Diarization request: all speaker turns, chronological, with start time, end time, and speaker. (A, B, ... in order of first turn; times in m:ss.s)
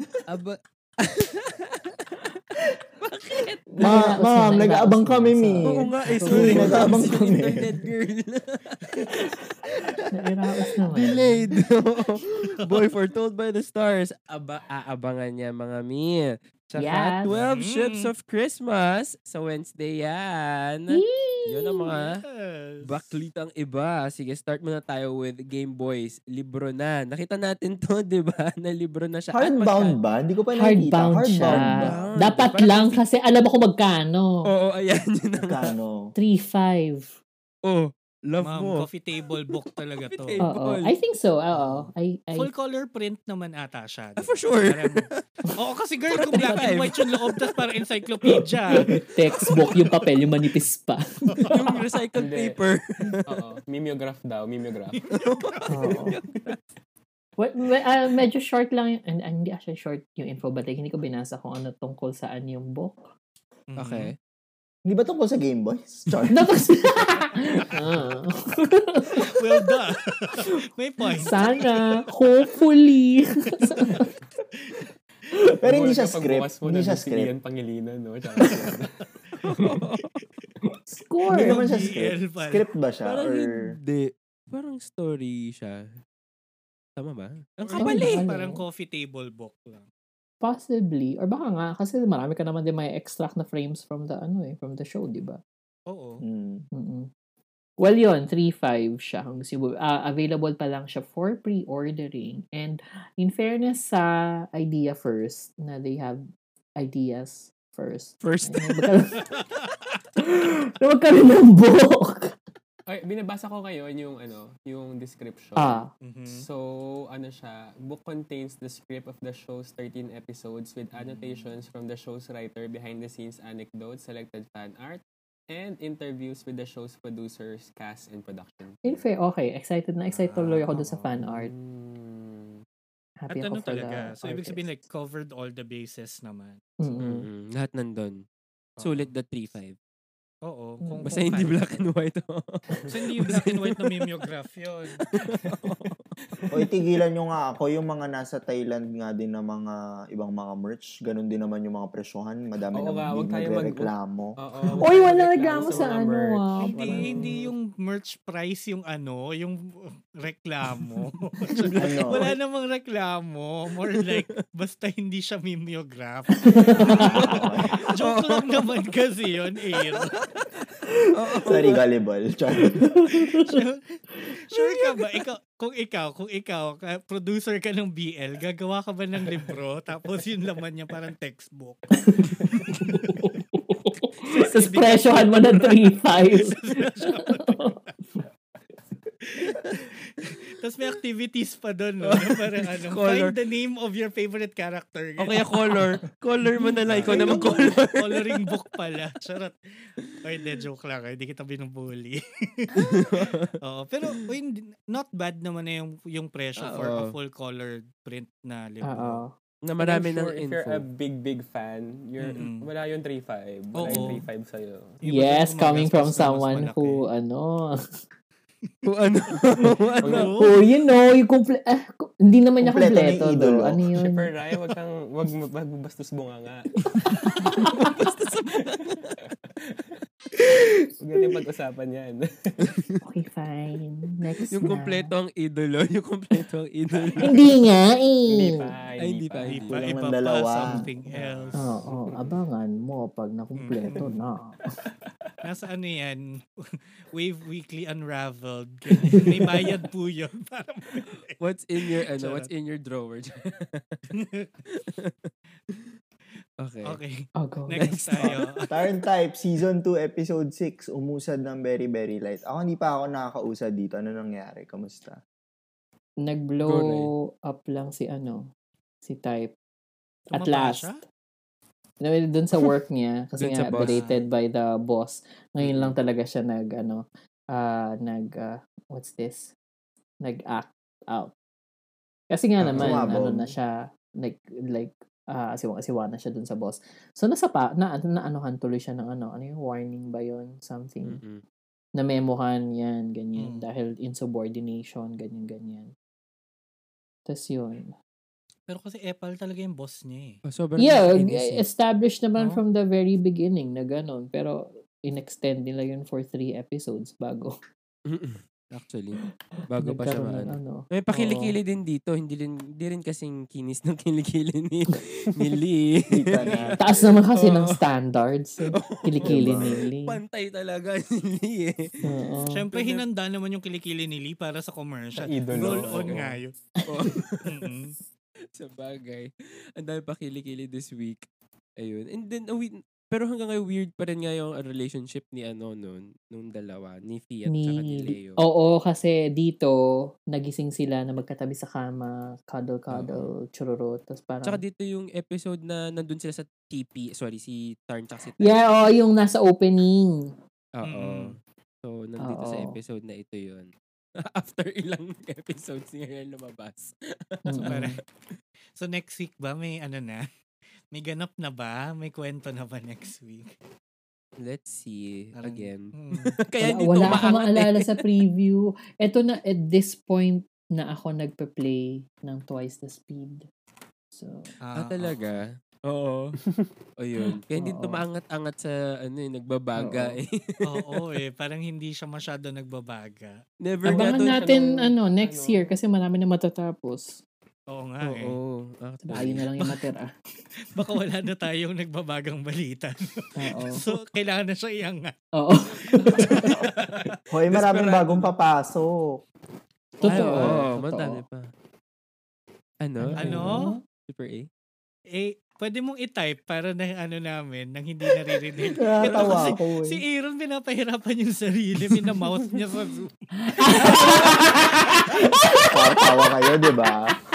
0:00.3-0:04.2 A
0:03.8-0:07.2 B
0:03.8-0:07.7 C
0:05.6-0:10.1 A
0:10.1-0:11.5 B
0:10.8-0:22.2 A
0:16.8-0:17.3 B
0:17.3-0:18.1 D
0:20.9-0:21.9 B
0:21.9-0:23.2 D
0:22.8-0:30.0 A
0:29.3-0:32.0 C
0:30.5-0:34.4 B
0:31.5-0:33.0 A
0:34.5-0:35.7 A
0:35.4-0:36.1 C
0:36.2-0:37.2 B
0:37.6-0:38.9 A
0:38.4-0:40.4 D
0:39.5-0:41.0 A
0:40.4-0:42.5 B
0:41.6-0:41.9 E
0:42.4-0:49.0 D
0:44.2-0:45.2 A
0:46.1-0:47.5 A
0:48.9-0:51.8 B
0:51.5-0:53.4 A
0:52.2-0:52.6 E
0:53.3-0:55.0 E
0:55.1-0:56.6 A
0:55.7-0:56.2 B
0:57.4-1:03.0 B
1:03.7-1:04.1 D
1:03.8-1:04.2 A
1:04.9-1:06.5 C
1:06.3-1:09.6 B
1:09.2-1:11.7 D
1:11.1-1:14.1 B
1:13.7-1:14.1 D
1:15.6-1:17.3 C
1:15.6-1:19.1 E
1:19.4-1:20.2 A
1:20.9-1:21.6 B
1:21.3-1:23.6 C
1:21.3-1:22.6 D
1:23.0-1:25.8 A
1:27.0-1:28.2 A
1:27.6-1:29.9 D
1:27.8-1:28.6 B
1:30.4-1:35.4 B
1:35.9-1:36.2 D
1:36.2-1:36.7 C
1:36.7-1:37.1 B
1:37.8-1:46.2 B
1:46.8-1:49.3 B
1:48.2-1:48.9 A
1:49.2-1:50.0 D
1:50.2-1:52.4 B
1:52.9-2:09.0 E
1:55.6-1:55.9 B
1:56.0-1:56.4 D
2:01.0-2:01.5 D
2:08.8-2:11.5 B
2:10.1-2:10.7 D
2:10.8-2:12.6 E
2:13.2-2:14.7 B
2:13.3-2:16.6 D
2:16.8-2:17.2 B
2:17.0-2:18.2 A
2:18.8-2:19.1 D
2:18.8-2:19.8 A
2:20.4-2:21.9 D
2:20.8-2:21.3 B
2:21.0-2:24.1 A
2:22.9-2:25.0 D
2:25.0-2:26.2 A
2:26.5-2:34.4 C
2:32.7-2:37.5 E
2:34.8-2:37.4 B
2:35.6-2:35.9 D
2:36.6-2:39.6 D
2:40.2-2:47.4 D
2:41.7-2:42.0 A
2:41.8-2:42.4 C
2:43.9-2:44.4 A
2:46.4-2:47.0 B
2:46.8-2:47.8 C
2:47.0-2:48.8 A
2:48.0-2:50.2 D
2:49.8-2:51.8 A
2:51.4-2:53.0 C
2:53.0-2:53.4 B
2:53.1-2:53.8 D
2:54.5-3:01.9 D
3:02.0-3:07.8 B
3:02.7-3:03.3 D
3:04.2-3:07.9 D
3:09.3-3:15.8 D
3:12.0-3:13.4 A
3:15.2-3:18.5 A
3:16.6-3:17.4 B
3:16.9-3:19.6 D
3:20.1-3:29.2 D
3:22.8-3:24.3 A
3:26.6-3:27.2 A
3:28.8-3:29.3 B
3:29.6-3:30.9 A
3:29.8-3:35.0 E
3:32.2-3:32.7 D
3:33.8-3:34.2 D
3:35.0-3:37.0 D
3:35.0-3:37.8 B
3:38.8-3:40.3 A
3:40.0-3:40.3 E
3:40.0-3:40.6 D
3:40.1-3:44.3 B
3:42.6-3:43.8 C
3:44.0-3:47.4 E
3:47.4-3:47.9 B
3:47.6-3:49.3 A
3:49.5-3:50.0 E
3:51.0-3:52.7 E
3:52.6-3:53.0 A
3:53.0-3:55.1 B
3:54.5-3:57.4 A
3:56.9-3:57.3 E
3:57.2-3:58.7 B
3:58.3-3:59.6 E
3:59.0-3:59.8 A
3:59.4-4:01.7 D
3:59.7-4:00.8 C
4:01.1-4:02.4 E
4:01.6-4:04.6 B
4:03.6-4:04.1 D
4:04.8-4:05.3 E
4:05.4-4:06.3 D
4:07.1-4:12.5 D
4:11.1-4:14.1 A
4:14.2-4:14.5 D
4:14.7-4:15.9 A
4:16.6-4:17.0 A
4:16.8-4:18.6 D
4:17.4-4:18.2 B
4:17.7-4:18.9 A
4:18.7-4:25.2 C
4:26.2-4:28.5 B
4:26.6-4:27.1 A
4:29.0-4:29.6 B
4:30.3-4:31.0 B
4:30.3-4:31.0 D
4:32.0-4:39.5 B
4:33.4-4:34.1 A
4:33.8-4:34.2 D
4:35.7-4:35.9 A
4:40.2-4:41.3 B
4:42.3-4:51.2 B
4:42.6-4:43.6 C
4:51.1-4:51.4 A
4:52.0-4:55.9 B
4:53.4-4:53.7 D
4:57.3-4:57.9 B
4:58.7-5:00.4 D
5:00.5-5:01.7 A
5:00.8-5:07.5 B
5:02.4-5:02.6 D
5:08.1-5:17.9 A
5:09.8-5:10.9 B
5:11.2-5:11.5 D
5:16.1-5:16.8 C
5:16.4-5:16.8 D
5:16.8-5:20.2 B
5:18.6-5:22.2 A
5:19.2-5:19.8 C
5:22.0-5:22.7 B
5:22.5-5:26.5 D
5:22.7-5:23.1 A
5:25.2-5:26.4 E
5:25.5-5:26.2 A
5:26.8-5:27.2 B
5:26.9-5:27.7 A
5:27.5-5:28.0 D
5:28.6-5:31.3 A
5:31.8-5:38.4 A
5:37.5-5:39.8 B
5:40.3-5:44.6 B
5:42.9-5:43.3 A
5:44.4-5:48.6 A
5:48.4-5:50.3 B
5:50.8-5:53.7 A
5:50.8-5:51.4 D
5:52.2-5:52.8 B
5:54.3-5:57.9 A
5:57.5-5:58.0 B
5:57.6-5:58.0 D
5:58.8-6:00.2 D
6:00.9-6:03.5 D
6:04.4-6:08.2 A
6:05.4-6:06.4 D
6:06.6-6:13.5 B
6:14.1-6:14.5 B
6:14.6-6:15.2 D
6:14.8-6:16.4 A
6:17.0-6:21.1 A
6:17.6-6:18.0 B
6:19.8-6:20.2 B
6:20.6-6:23.4 D
6:23.6-6:24.4 A
6:23.8-6:25.8 E
6:23.8-6:27.2 B
6:27.7-6:28.4 D
6:28.0-6:29.5 A
6:29.1-6:30.1 B
6:30.8-6:35.1 D
6:33.4-6:33.8 B
6:35.4-6:36.6 B
6:35.8-6:37.2 D
6:36.4-6:38.0 A
6:37.3-6:39.1 C
6:40.0-6:41.2 B
6:40.0-6:41.5 A
6:40.2-6:40.5 D
6:42.8-6:44.5 A
6:43.0-6:43.8 B
6:43.2-6:43.7 D
6:45.1-6:53.1 D
6:48.7-6:49.6 A
6:48.8-6:50.0 C
6:53.4-6:56.0 B
6:53.6-6:55.7 A
6:55.7-6:57.2 C